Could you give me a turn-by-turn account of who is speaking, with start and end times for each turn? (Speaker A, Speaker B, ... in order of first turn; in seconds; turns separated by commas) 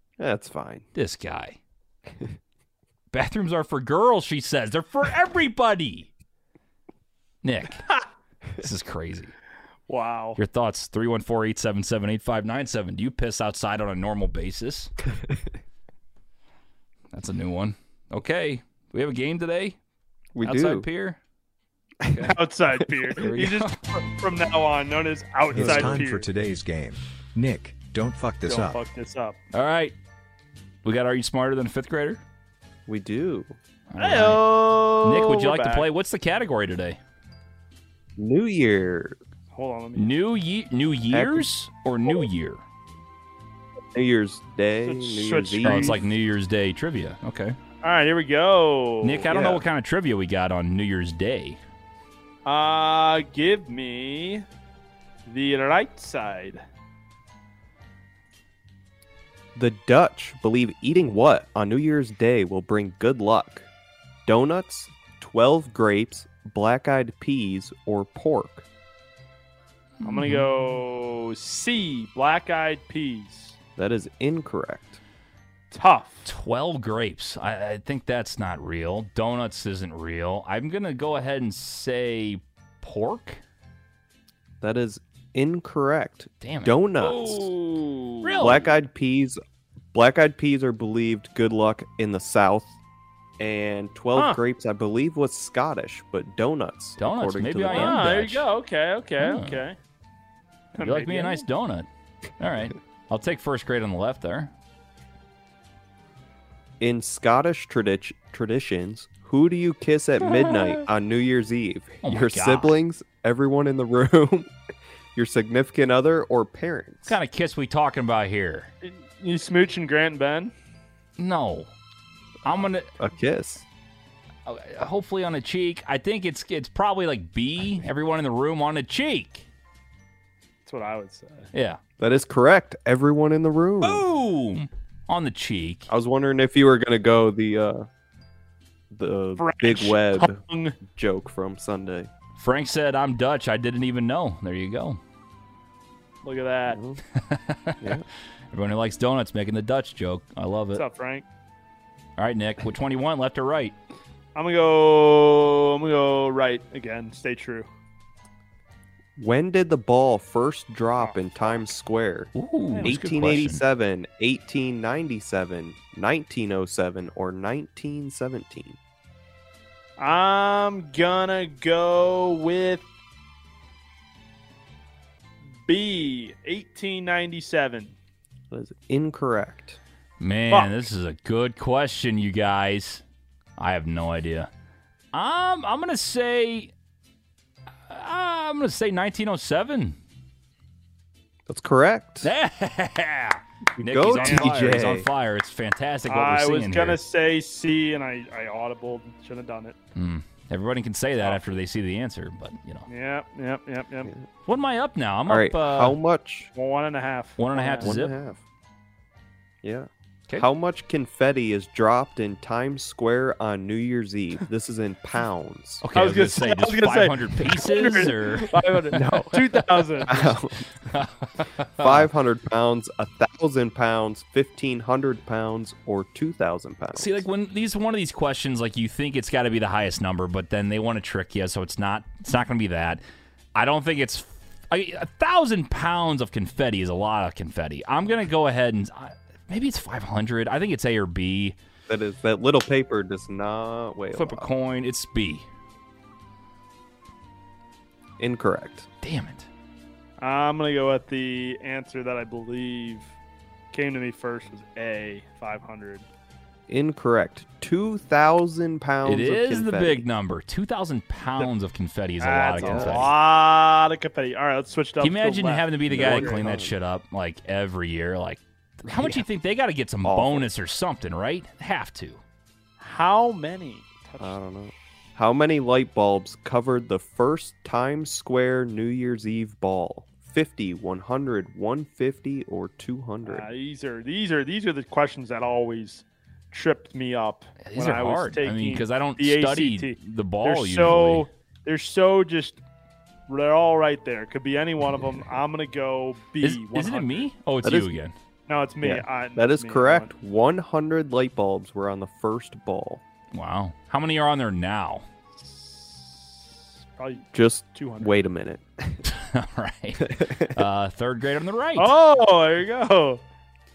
Speaker A: 0.2-0.8, Speaker B: 0.9-1.6, Speaker B: 3.1-6.1, Speaker B: 7.4-7.9, Speaker B: 8.6-9.3, Speaker C: 9.9-10.4, Speaker B: 10.4-14.9, Speaker B: 17.1-19.8, Speaker A: 20.4-20.9, Speaker B: 20.4-21.2, Speaker B: 22.1-22.3, Speaker C: 22.2-26.3, Speaker B: 23.2-23.8, Speaker D: 25.5-28.8, Speaker C: 28.5-29.4, Speaker B: 29.5-29.9, Speaker B: 30.8-32.2, Speaker A: 32.9-33.5, Speaker B: 33.9-34.4, Speaker C: 34.0-35.9, Speaker B: 35.0-37.0, Speaker A: 38.2-39.2, Speaker C: 39.5-40.1, Speaker B: 40.0-42.6, Speaker A: 41.1-41.5, Speaker A: 43.9-46.0, Speaker C: 44.8-46.0, Speaker B: 45.6-47.6, Speaker C: 47.8-49.6, Speaker B: 49.0-51.6, Speaker C: 52.5-54.5, Speaker C: 55.3-56.6, Speaker A: 59.5-63.7, Speaker A: 64.3-68.7, Speaker B: 70.0-70.5, Speaker C: 70.0-73.6, Speaker A: 73.8-75.0, Speaker C: 75.7-76.3, Speaker B: 76.3-83.4, Speaker A: 84.6-87.5, Speaker B: 86.4-86.9, Speaker C: 87.0-88.5, Speaker B: 88.2-88.8, Speaker A: 88.4-89.4, Speaker A: 89.9-92.7, Speaker A: 93.4-98.1, Speaker C: 94.2-94.4, Speaker B: 97.0-98.5, Speaker C: 97.7-99.8, Speaker B: 99.2-99.6, Speaker C: 100.7-101.4, Speaker B: 100.8-101.9, Speaker B: 102.4-104.5, Speaker A: 106.8-114.5, Speaker B: 112.0-112.7, Speaker A: 115.2-117.2, Speaker B: 117.1-118.7, Speaker C: 118.8-120.5, Speaker B: 121.2-121.7, Speaker B: 122.4-122.9, Speaker A: 122.5-123.7, Speaker B: 124.5-129.4, Speaker C: 130.7-131.5, Speaker B: 131.5-131.8, Speaker A: 132.0-134.1, Speaker B: 133.8-135.9, Speaker A: 135.9-137.9, Speaker A: 138.9-142.1, Speaker C: 139.4-140.8, Speaker B: 142.4-145.0, Speaker C: 146.2-146.8, Speaker A: 146.7-147.0, Speaker B: 147.2-148.0, Speaker B: 148.5-150.8, Speaker C: 150.7-151.2, Speaker B: 152.2-153.8, Speaker C: 154.3-157.7, Speaker A: 159.2-162.3, Speaker C: 161.0-161.7, Speaker B: 162.4-163.6, Speaker C: 162.7-163.4, Speaker A: 162.8-168.8, Speaker C: 170.0-172.9, Speaker C: 175.6-177.9, Speaker A: 178.5-179.8, Speaker B: 180.2-183.0, Speaker C: 180.5-180.8, Speaker B: 183.6-184.5, Speaker B: 185.1-186.7, Speaker B: 187.9-190.0, Speaker A: 191.5-192.3, Speaker B: 192.2-197.0, Speaker A: 193.8-195.1, Speaker C: 194.2-194.5, Speaker C: 196.1-199.8, Speaker B: 199.9-202.9, Speaker C: 201.2-201.6, Speaker C: 202.9-204.1, Speaker B: 204.5-206.0, Speaker A: 205.3-206.5, Speaker C: 206.6-207.9, Speaker B: 207.4-208.1, Speaker A: 207.8-208.4, Speaker A: 209.6-215.8, Speaker B: 215.8-218.5, Speaker C: 215.9-220.2, Speaker A: 218.9-219.4, Speaker A: 220.1-220.7, Speaker B: 220.9-222.1, Speaker A: 221.8-227.2, Speaker B: 227.0-233.0, Speaker B: 233.6-241.6, Speaker A: 241.9-244.5, Speaker B: 244.1-245.5, Speaker A: 248.2-248.9, Speaker B: 249.0-249.5, Speaker C: 250.2-253.1, Speaker C: 253.7-256.1, Speaker A: 256.7-260.0, Speaker B: 259.1-263.1, Speaker C: 262.2-266.4, Speaker A: 262.6-263.1, Speaker B: 265.0-272.2, Speaker A: 265.9-266.8, Speaker A: 268.9-269.3, Speaker A: 270.0-270.5, Speaker C: 272.8-274.4, Speaker A: 274.2-283.5, Speaker C: 283.2-292.6, Speaker B: 287.6-291.3, Speaker C: 293.3-297.3, Speaker B: 296.4-298.1, Speaker A: 297.6-298.0, Speaker C: 298.5-300.1, Speaker A: 298.8-303.0, Speaker B: 303.3-305.1, Speaker C: 305.4-306.3, Speaker C: 307.0-308.2, Speaker A: 307.3-309.0, Speaker B: 309.1-311.9, Speaker A: 310.1-310.6, Speaker C: 311.8-313.2